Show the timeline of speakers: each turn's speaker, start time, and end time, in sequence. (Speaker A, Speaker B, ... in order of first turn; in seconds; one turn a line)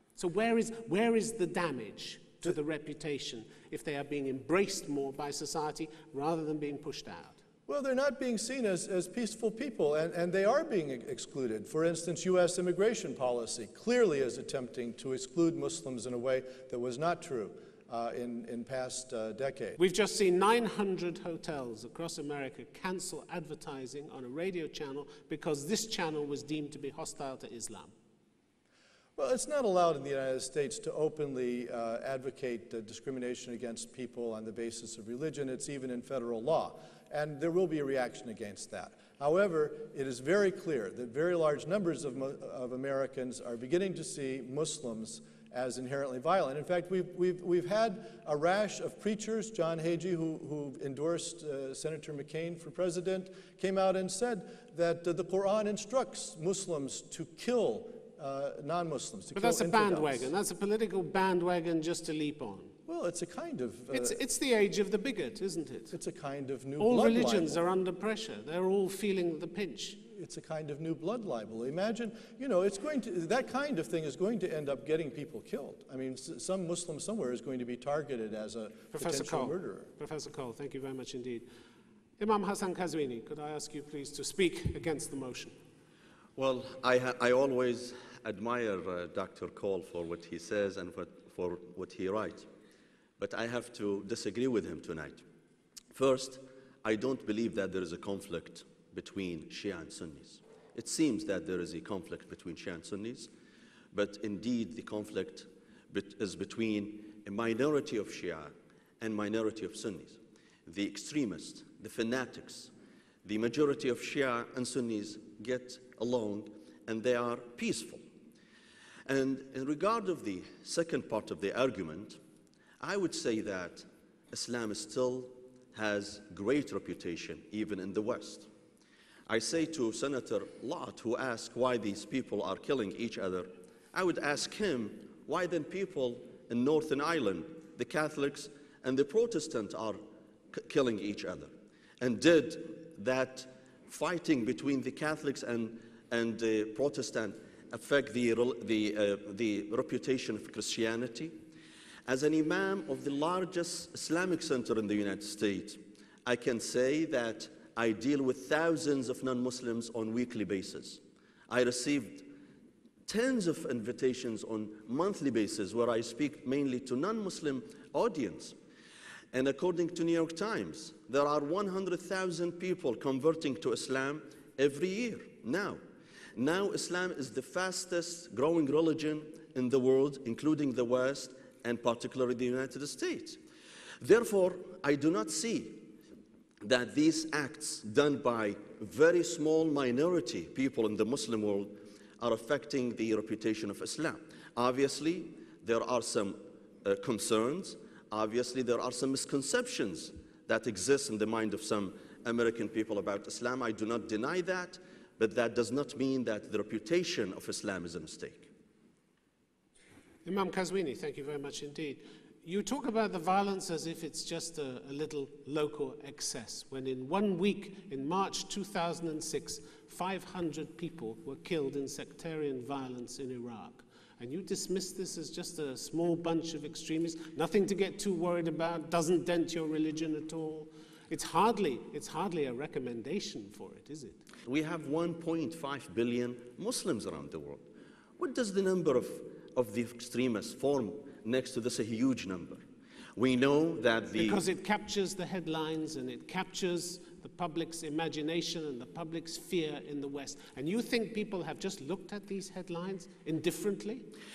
Speaker A: 0.1-7.4
Speaker B: 7.7-19.8
Speaker A: 19.8-27.9
Speaker B: 29.1-60.3
Speaker A: 59.3-62.7
Speaker B: 62.9-64.2
Speaker A: 63.9-65.9
Speaker B: 65.9-67.6
Speaker A: 66.8-70.0
Speaker B: 70.0-79.9
Speaker A: 78.9-81.5
Speaker A: 82.2-85.5
Speaker C: 86.3-92.5
Speaker C: 93.2-95.2
Speaker C: 95.9-103.3
Speaker C: 103.9-112.7
Speaker C: 113.2-118.0
Speaker C: 119.0-122.2
Speaker C: 122.8-128.5
Speaker C: 129.3-140.0
Speaker C: 140.5-151.3
Speaker C: 152.1-162.3
Speaker C: 163.1-168.6
Speaker C: 169.3-175.8
Speaker C: 176.3-183.4
Speaker C: 184.0-185.9
Speaker C: 186.6-208.5
Speaker A: 210.2-234.2
Speaker C: 234.5-237.6
Speaker C: 238.2-242.6
Speaker C: 243.2-244.4
Speaker A: 244.2-254.1